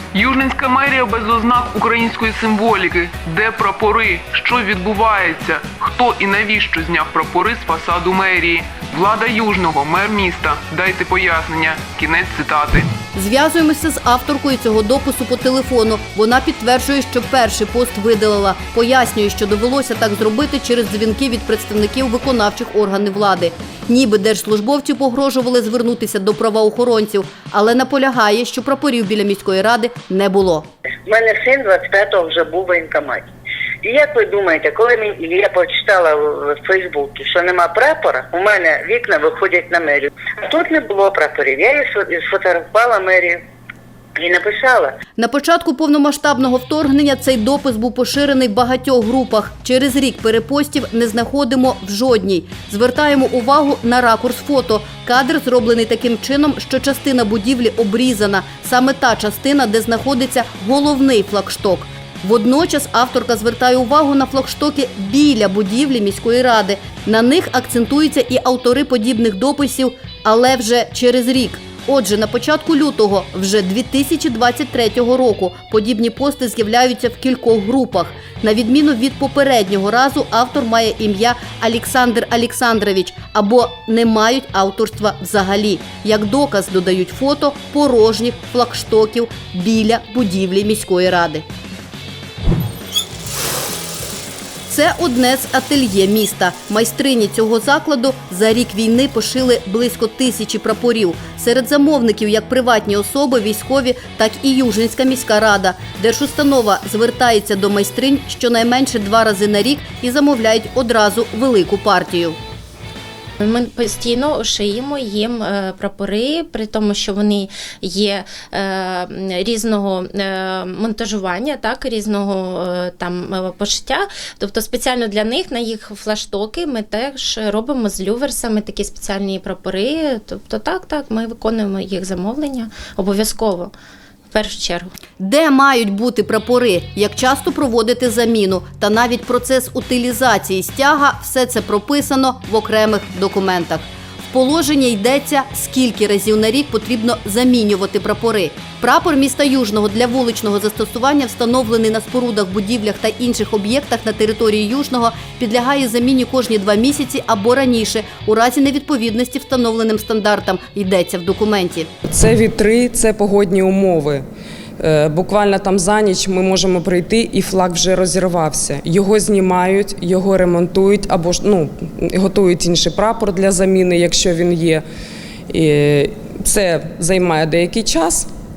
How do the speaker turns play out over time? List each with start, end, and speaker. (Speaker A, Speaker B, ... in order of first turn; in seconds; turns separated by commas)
Speaker A: 0.1-12.9, Speaker B: 13.1-30.7, Speaker C: 31.1-33.2, Speaker C: 33.8-43.4, Speaker C: 44.2-44.9, Speaker B: 45.2-91.4, Speaker B: 94.7-112.4, Speaker D: 113.4-133.7, Speaker D: 134.3-134.9, Speaker B: 135.2-161.9, Speaker E: 162.1-164.2, Speaker E: 164.8-174.8, Speaker E: 175.5-178.3